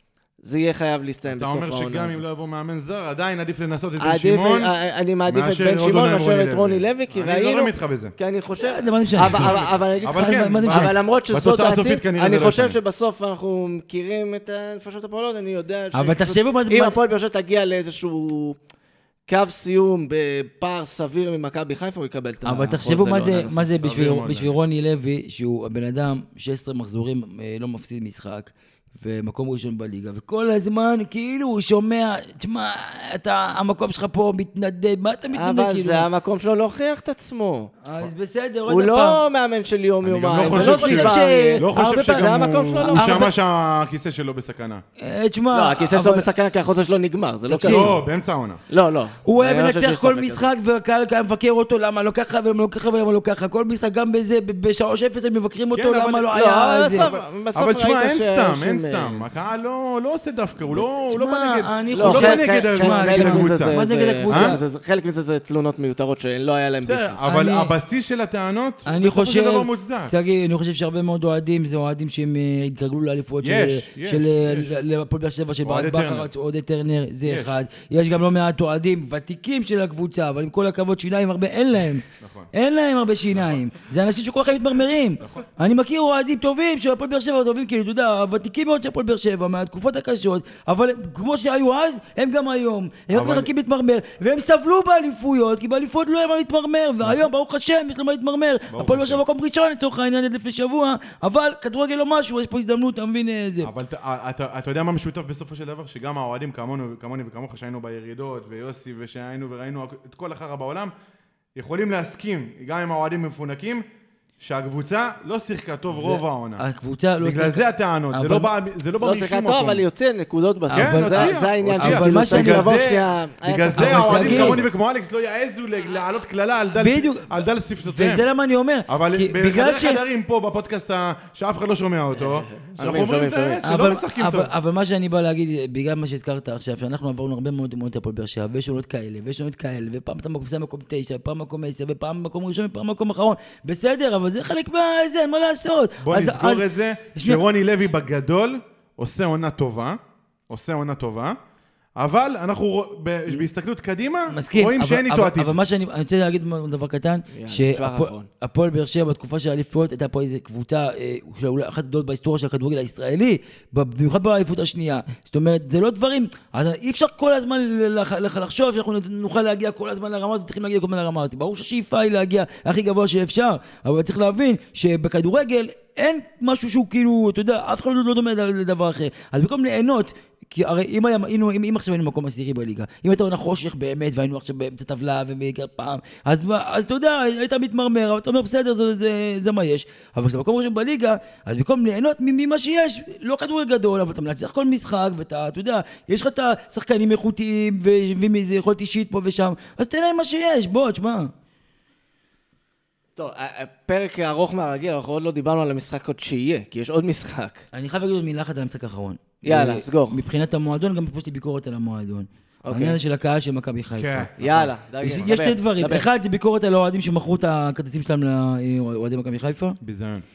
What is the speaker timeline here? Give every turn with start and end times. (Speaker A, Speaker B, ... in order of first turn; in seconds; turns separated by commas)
Speaker A: 0.4-2.2, Speaker B: 1.3-4.7, Speaker A: 4.0-18.6, Speaker B: 5.3-8.1, Speaker C: 8.6-11.0, Speaker B: 9.3-12.8, Speaker C: 15.9-17.0, Speaker A: 19.3-23.7, Speaker C: 22.4-36.1, Speaker B: 23.6-24.6, Speaker A: 35.3-37.7, Speaker C: 37.8-39.2, Speaker A: 38.7-43.3, Speaker B: 40.0-44.8, Speaker C: 40.4-41.6, Speaker C: 43.0-43.3, Speaker C: 45.0-46.3, Speaker A: 45.5-48.0, Speaker C: 47.5-48.0, Speaker B: 47.6-48.6, Speaker A: 48.7-50.5, Speaker C: 49.2-57.1, Speaker B: 55.7-64.6, Speaker A: 56.3-59.3, Speaker C: 60.7-64.6, Speaker A: 61.9-67.2, Speaker B: 66.8-70.1, Speaker C: 67.2-67.7, Speaker C: 68.9-103.7, Speaker B: 73.4-74.8, Speaker B: 75.6-76.3, Speaker B: 77.2-77.6, Speaker B: 82.2-82.5, Speaker B: 93.1-93.5, Speaker B: 98.7-99.2, Speaker B: 103.6-110.9, Speaker B: 111.6-113.8, Speaker B: 114.4-116.7, Speaker C: 115.9-118.5, Speaker B: 117.2-119.8, Speaker A: 119.0-124.7, Speaker C: 120.7-122.7, Speaker B: 120.7-128.3, Speaker C: 123.8-124.7, Speaker C: 126.7-130.0, Speaker B: 128.9-134.5, Speaker A: 132.1-133.7, Speaker C: 133.7-147.4, Speaker B: 146.0-150.0, Speaker B: 150.5-151.4, Speaker B: 152.0-155.5, Speaker C: 154.3-201.3, Speaker A: 157.3-158.3, Speaker A: 203.2-207.7, Speaker C: 207.7-214.3, Speaker A: 209.4-210.2, Speaker A: 212.6-213.0, Speaker B: 214.0-214.7, Speaker A: 214.4-216.1, Speaker C: 215.0-219.8, Speaker B: 219.8-220.2